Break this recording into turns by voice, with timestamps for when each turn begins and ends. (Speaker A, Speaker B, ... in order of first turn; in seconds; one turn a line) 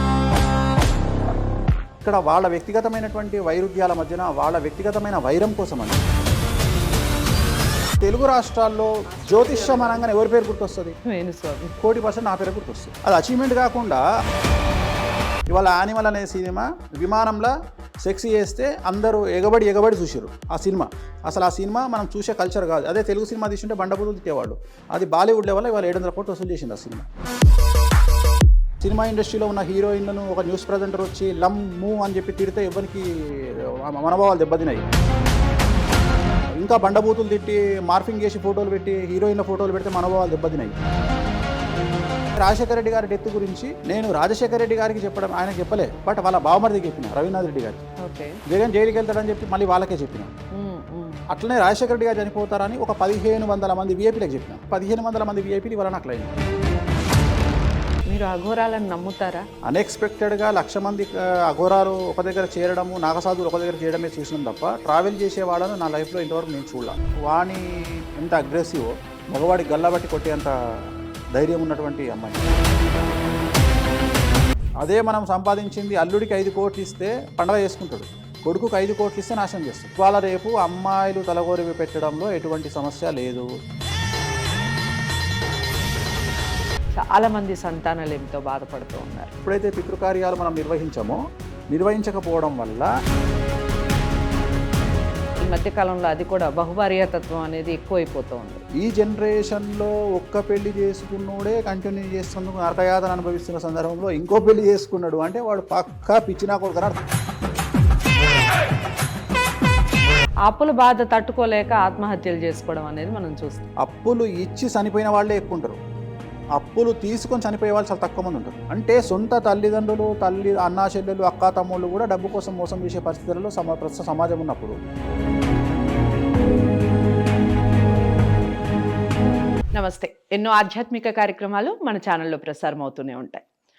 Speaker A: 2.0-6.0
Speaker A: 8.0-11.0
Speaker B: 9.1-10.1
Speaker B: 11.0-11.8
Speaker A: 11.8-14.0
Speaker A: 15.5-17.5
Speaker A: 18.0-27.1
Speaker A: 28.8-34.8
Speaker A: 36.6-40.7
Speaker A: 42.3-47.8
Speaker B: 48.0-48.4
Speaker A: 48.5-50.3
Speaker B: 50.5-51.2
Speaker A: 51.3-56.3
Speaker B: 58.1-59.5
Speaker A: 59.6-67.7
Speaker A: 68.2-70.5
Speaker A: 71.3-72.4
Speaker A: 74.8-83.5
Speaker B: 87.0-89.3
Speaker A: 89.4-91.2
Speaker A: 91.7-92.9
Speaker B: 95.4-98.6
Speaker A: 98.8-107.0
Speaker B: 110.5-113.6
Speaker A: 113.8-115.8
Speaker A: 116.5-124.7
Speaker B: 129.7-133.4